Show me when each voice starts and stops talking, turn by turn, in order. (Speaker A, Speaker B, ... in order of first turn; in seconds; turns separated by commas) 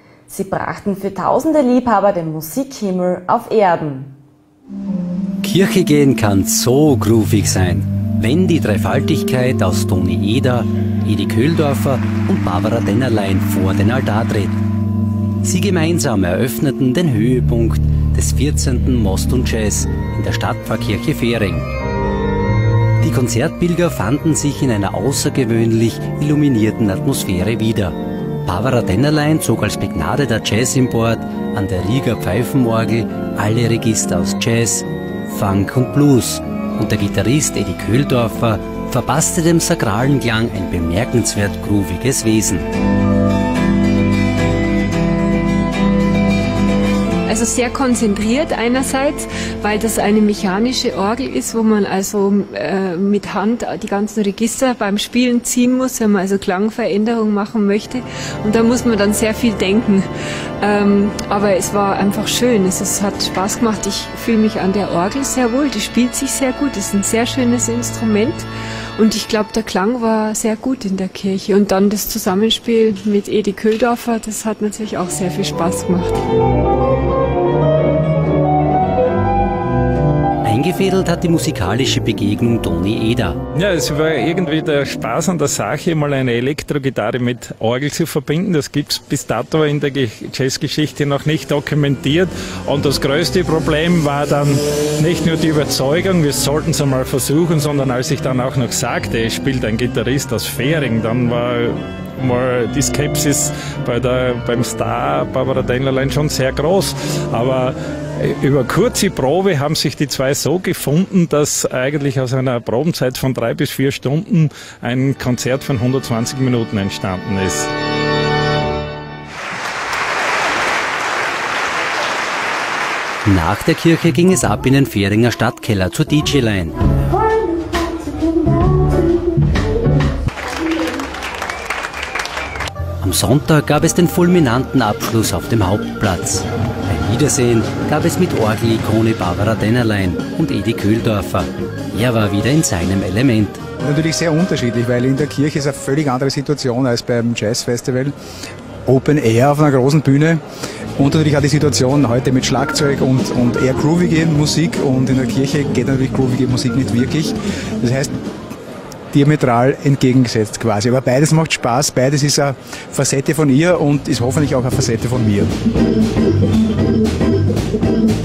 Speaker A: 0.3-4.1, Speaker B: 5.4-14.6, Speaker B: 15.4-21.7, Speaker B: 23.0-42.7, Speaker C: 47.3-60.1, Speaker C: 60.6-76.2, Speaker B: 80.4-83.4, Speaker D: 83.5-117.7, Speaker B: 123.2-126.8, Speaker B: 133.0-143.6, Speaker E: 143.8-148.1, Speaker E: 148.8-150.4, Speaker E: 151.0-158.1, Speaker E: 159.1-165.5